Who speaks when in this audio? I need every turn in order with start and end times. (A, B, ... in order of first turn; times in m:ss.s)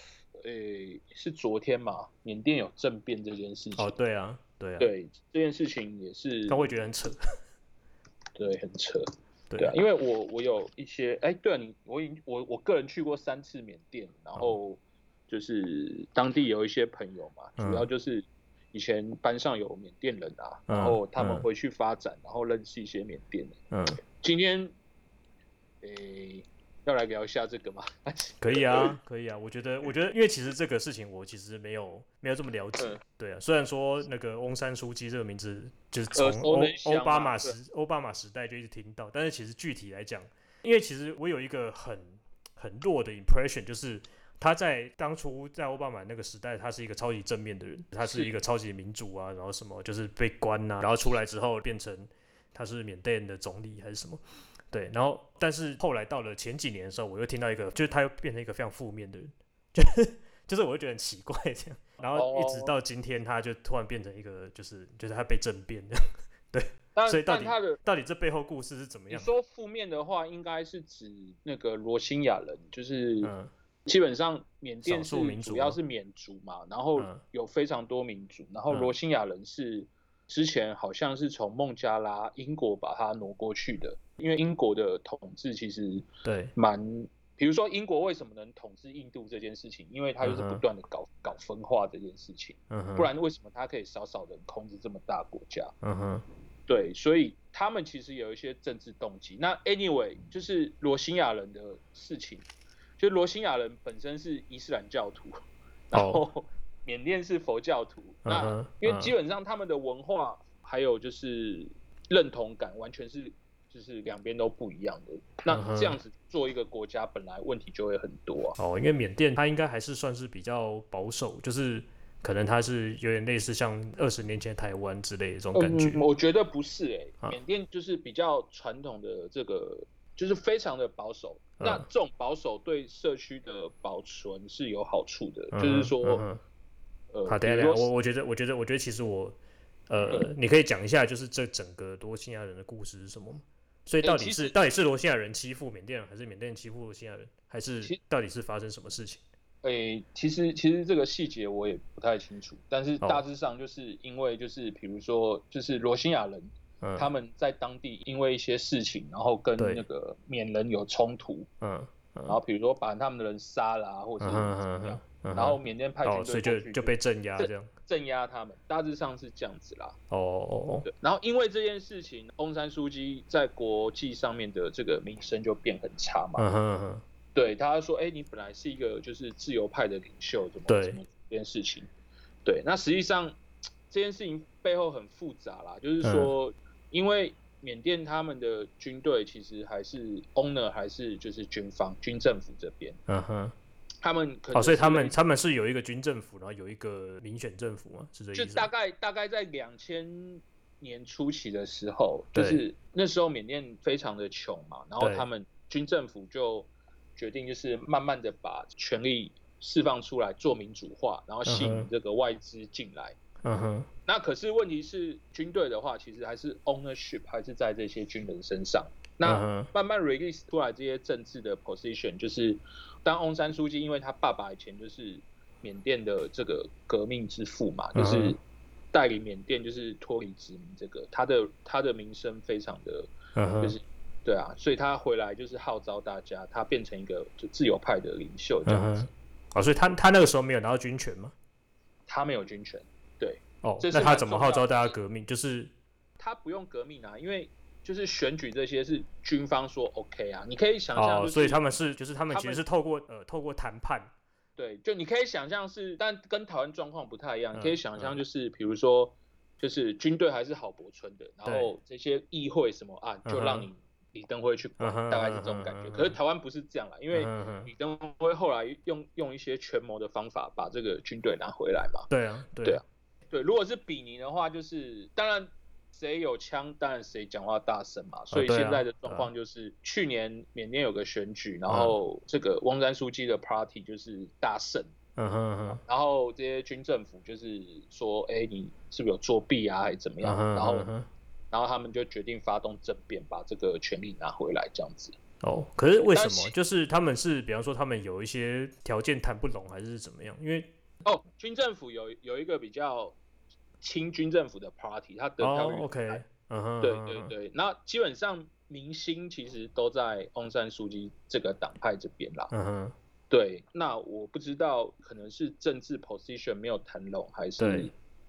0:00.4-0:04.0 A
0:03.8-0:04.9 B
0:04.8-0:06.7 A
0:06.5-0:07.2 B
0:08.4-0:23.6 A
0:09.5-0:09.7 B
0:17.6-0:17.9 B
0:20.7-0:21.4 B
0:23.7-0:24.0 B
0:24.2-0:24.7 A
0:25.8-0:29.0 A
0:28.4-1:06.0 B
0:36.1-0:37.5 A
0:48.0-0:48.3 A
1:02.1-1:02.7 A
1:06.5-1:09.3 B
1:07.0-1:07.8 A
1:09.1-1:13.3 A
1:13.2-1:13.5 B
1:13.8-1:35.7 A
1:14.8-1:15.8 B
1:26.2-1:26.5 B
1:30.2-1:30.6 B
1:32.7-1:33.1 B
1:35.8-1:36.2 B
1:36.7-1:42.4 A
1:43.0-1:45.4 A
1:45.9-1:58.6 A
1:45.9-1:46.2 B
1:48.2-1:49.1 B
1:55.5-1:56.0 B
1:58.6-2:06.0 B
2:05.5-2:16.2 A
2:11.6-2:11.8 B
2:15.5-2:16.4 B
2:17.1-2:17.9 A
2:17.2-2:19.4 B
2:19.9-2:29.2 B
2:24.0-2:24.6 A
2:29.6-2:41.5 A
2:36.8-2:37.1 B
2:39.6-2:39.8 B
2:41.6-2:42.4 B
2:42.3-2:50.0 A
2:44.2-2:47.7 B
2:50.1-2:50.9 B
2:50.8-2:56.5 A
2:56.4-2:57.0 B
2:57.3-3:01.9 A
3:00.7-3:01.0 B
3:02.4-3:03.4 A
3:03.9-3:13.0 A
3:06.0-3:06.3 B
3:13.1-3:13.5 B
3:14.0-3:15.2 A
3:14.5-3:18.7 B
3:18.3-3:33.2 A
3:22.3-3:22.6 B
3:25.0-3:25.3 B
3:31.4-3:31.9 B
3:33.4-3:33.9 B
3:34.0-3:48.4 A
3:39.2-3:39.7 B
3:47.9-3:48.4 B
3:48.9-3:59.1 A
3:53.3-3:53.8 B
3:58.6-4:01.3 B
4:02.1-4:04.9 A
4:03.6-4:05.7 B
4:06.2-4:11.6 A
4:10.9-4:14.1 B
4:12.3-4:12.6 A
4:14.6-4:32.1 A
4:17.5-4:18.2 B
4:23.2-4:23.7 B
4:24.8-4:26.2 B
4:27.1-4:27.7 B
4:32.1-4:32.8 B
4:32.6-4:44.9 A
4:38.3-4:39.3 B
4:41.7-4:41.9 B
4:45.2-4:45.8 B
4:45.7-4:50.9 A
4:50.2-4:51.1 B
4:51.5-4:55.2 A
4:55.4-5:00.7 B
4:56.1-4:56.5 A
5:01.0-5:03.2 A
5:03.8-5:06.2 A
5:05.4-5:07.3 B
5:06.8-5:12.5 A
5:12.5-5:12.9 B
5:13.3-5:17.9 A
5:17.6-5:17.9 B